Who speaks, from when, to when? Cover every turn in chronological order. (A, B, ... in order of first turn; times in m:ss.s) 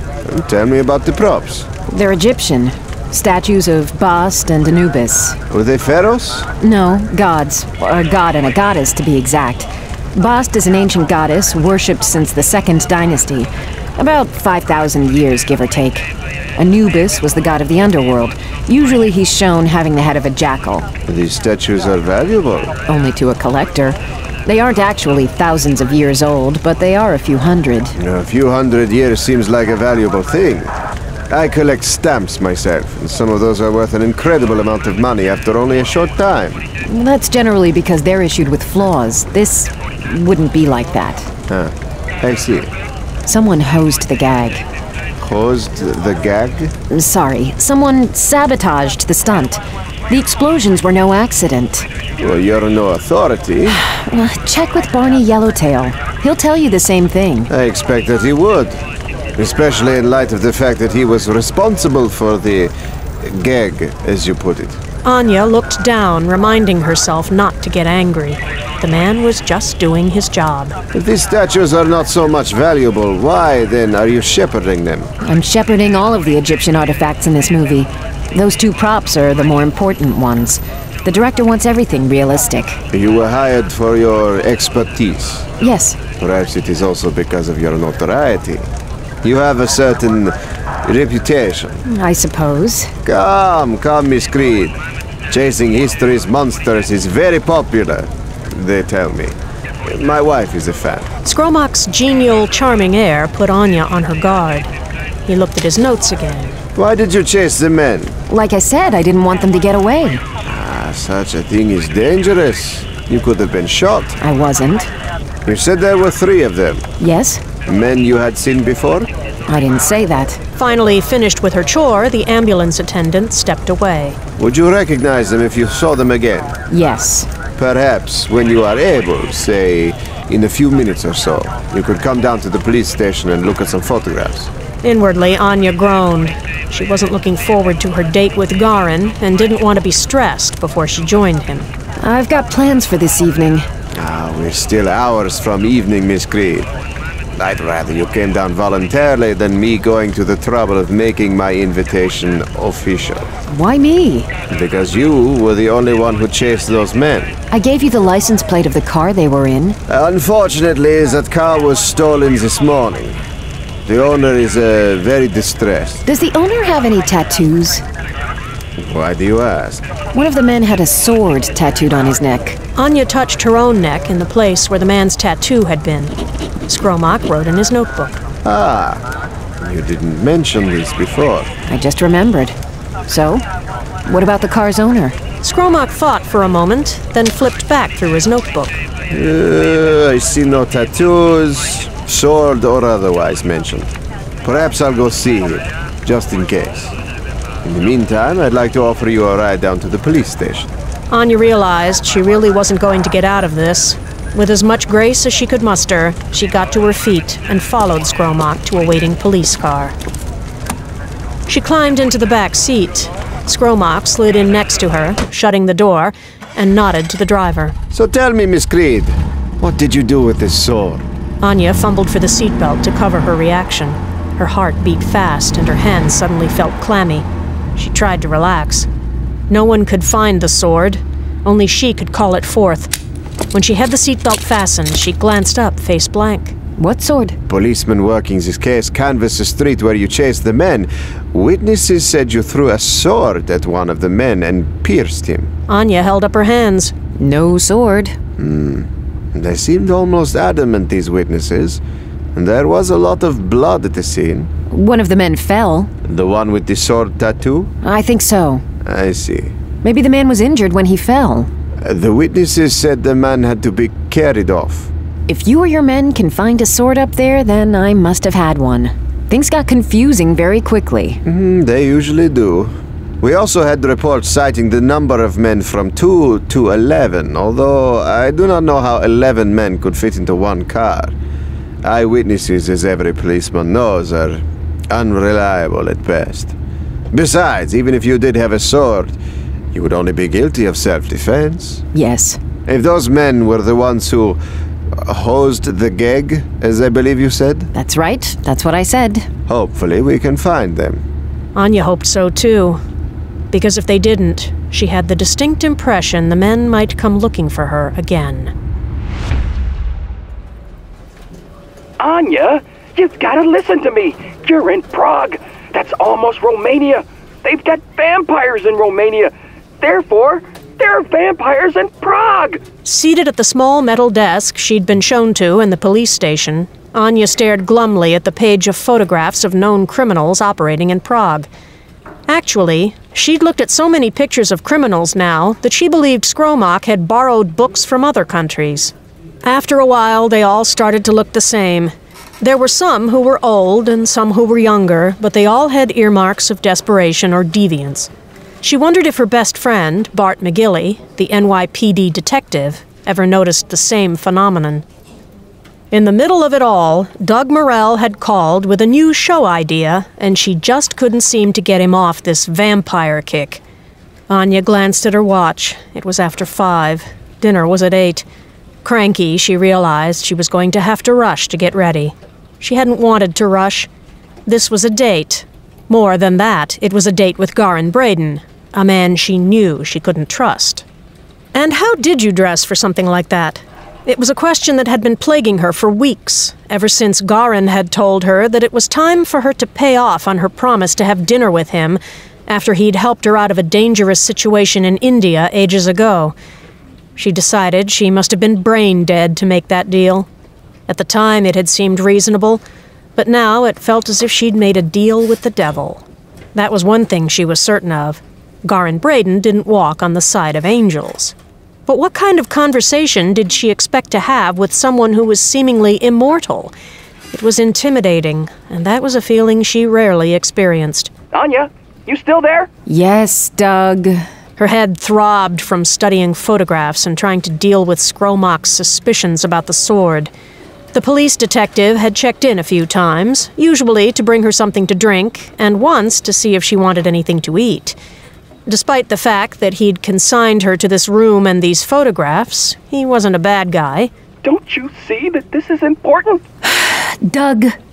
0:00.2-0:01.7 A
0:01.9-0:05.4 B
0:05.5-0:06.5 A
0:06.6-0:20.9 B
0:21.0-0:22.8 A
0:22.9-0:28.0 B
0:28.0-0:30.7 A
0:31.3-0:36.7 A
0:36.8-0:41.3 B
0:41.5-0:42.7 A
0:43.2-0:44.6 B
0:45.2-0:46.7 A
0:46.9-0:51.9 B
0:52.2-0:53.8 A
0:53.7-0:57.5 B
0:57.5-0:58.8 A
0:59.4-1:04.8 A
1:05.0-1:10.8 C
1:10.9-1:15.1 A
1:15.2-1:22.8 B
1:22.9-1:25.5 A
1:25.6-1:26.0 B
1:26.2-1:28.7 A
1:29.2-1:31.8 A
1:31.8-1:32.9 B
1:33.0-1:34.7 A
1:35.3-1:41.1 A
1:41.2-1:44.7 C
1:45.3-1:46.6 C
1:46.8-1:48.2 A
1:48.3-1:50.2 B
1:50.4-1:54.2 A
1:54.2-1:54.9 B
1:55.4-1:56.9 A
1:57.0-1:57.4 B
1:57.6-1:59.1 A
1:59.5-2:00.4 B
2:00.6-2:04.2 C
2:04.4-2:06.6 A
2:06.7-2:07.3 B
2:07.6-2:14.5 A
2:14.8-2:21.7 C
2:22.0-2:23.7 B
2:23.9-2:26.7 A
2:27.4-2:33.3 A
2:33.5-2:34.3 B
2:34.5-2:37.4 A
2:37.5-2:39.8 B
2:39.9-2:43.2 A
2:43.8-2:46.0 A
2:46.0-2:47.8 B
2:48.8-2:49.8 A
2:50.1-2:52.6 B
2:52.8-2:56.1 C
2:56.7-2:58.2 C
2:58.4-2:59.0 A
2:59.6-3:01.5 A
3:01.6-3:02.6 B
3:03.1-3:03.4 B
3:04.0-3:05.2 B
3:05.4-3:08.8 C
3:09.1-3:13.9 A
3:14.4-3:16.9 A
3:17.6-3:20.7 A
3:21.1-3:30.0 C
3:31.5-3:37.7 C
3:37.9-3:41.0 A
3:41.4-3:48.9 C
3:49.5-3:52.9 C
3:53.5-3:56.5 C
3:56.8-3:57.4 B
3:57.5-4:05.5 A
4:05.7-4:06.9 C
4:07.2-4:08.2 B
4:08.4-4:11.8 A
4:12.3-4:14.5 A
4:14.7-4:15.9 B
4:16.0-4:17.7 A
4:17.8-4:18.6 B
4:18.8-4:19.5 A
4:19.8-4:21.5 B
4:21.8-4:24.9 A
4:25.3-4:31.2 B
4:31.2-4:41.1 A
4:41.8-4:46.5 A
4:47.1-4:49.2 A
4:49.7-4:51.8 A
4:51.9-4:52.4 B
4:52.6-4:54.4 A
4:55.0-4:57.7 A
4:57.7-4:59.3 B
4:59.5-5:01.0 A
5:01.5-5:02.8 C
5:03.5-5:08.5 C
5:12.0-5:22.6 D
5:22.8-5:31.5 C
5:32.3-5:38.9 C
5:39.4-5:48.1 C
5:48.6-5:54.8 C
5:55.9-6:03.6 C
6:04.3-6:08.2 C
6:08.8-6:13.9 C
6:14.4-6:20.8 C
6:21.5-6:36.3 C
6:37.2-6:40.3 C
6:40.9-6:42.6 C
6:43.2-6:46.0 C
6:46.5-6:51.3 C
6:51.9-6:56.7 C
6:57.3-7:01.1 C
7:01.3-7:02.7 D
7:02.8-7:04.2 B
7:04.6-7:10.3 C
7:10.9-7:18.0 C
7:18.7-7:24.1 C
7:24.4-7:26.4 D
7:26.6-7:27.8 B